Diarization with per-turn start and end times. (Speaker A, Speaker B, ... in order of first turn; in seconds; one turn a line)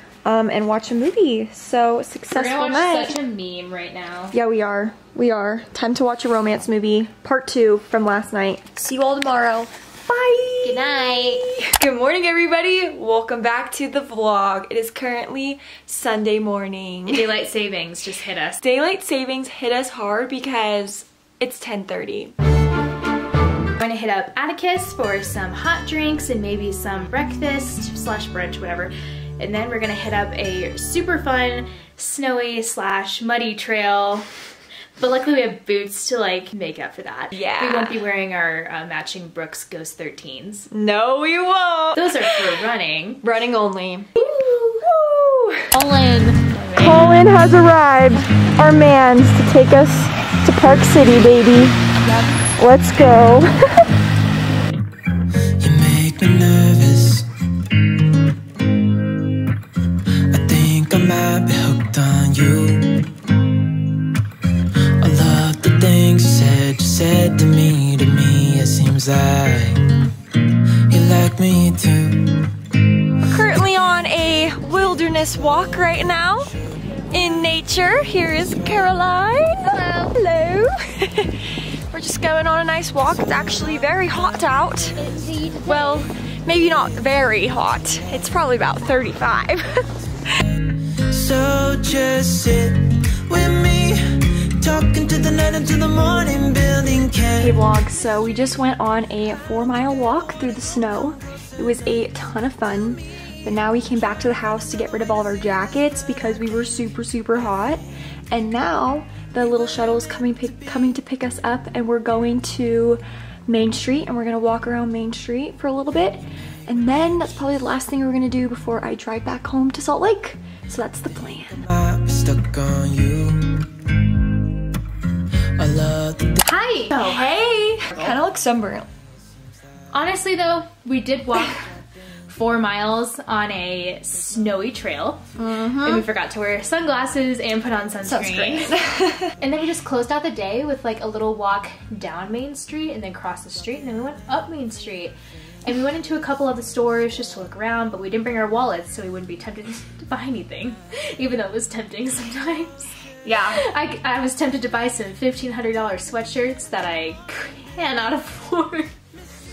Speaker A: 0.2-3.2
Speaker B: 2.3-4.3
Speaker A: 4.3-17.3
Speaker B: 10.6-11.4
Speaker B: 17.1-18.6
Speaker A: 18.6-22.3
Speaker B: 23.8-34.2
Speaker B: 35.0-40.7
Speaker A: 37.3-38.0
Speaker A: 40.7-42.7
Speaker B: 41.9-43.2
Speaker A: 43.2-45.8
Speaker B: 44.2-44.5
Speaker B: 45.7-47.1
Speaker A: 46.7-53.8
Speaker C: 55.6-57.3
Speaker C: 60.3-63.1
Speaker C: 65.0-69.9
Speaker C: 70.9-72.5
Speaker A: 73.2-76.5
Speaker A: 77.1-89.8
Speaker B: 79.7-80.1
Speaker B: 85.2-85.5
Speaker C: 91.1-97.5
Speaker A: 97.4-121.7
Speaker C: 121.7-123.7
Speaker C: 125.6-126.4
Speaker B: 126.4-127.3
Speaker A: 126.9-128.9
Speaker B: 127.9-128.2
Speaker B: 129.9-131.7
Speaker B: 132.3-138.8
Speaker A: 135.4-136.1
Speaker A: 138.0-139.3
Speaker B: 139.4-152.8
Speaker A: 153.2-153.6
Speaker B: 153.4-158.9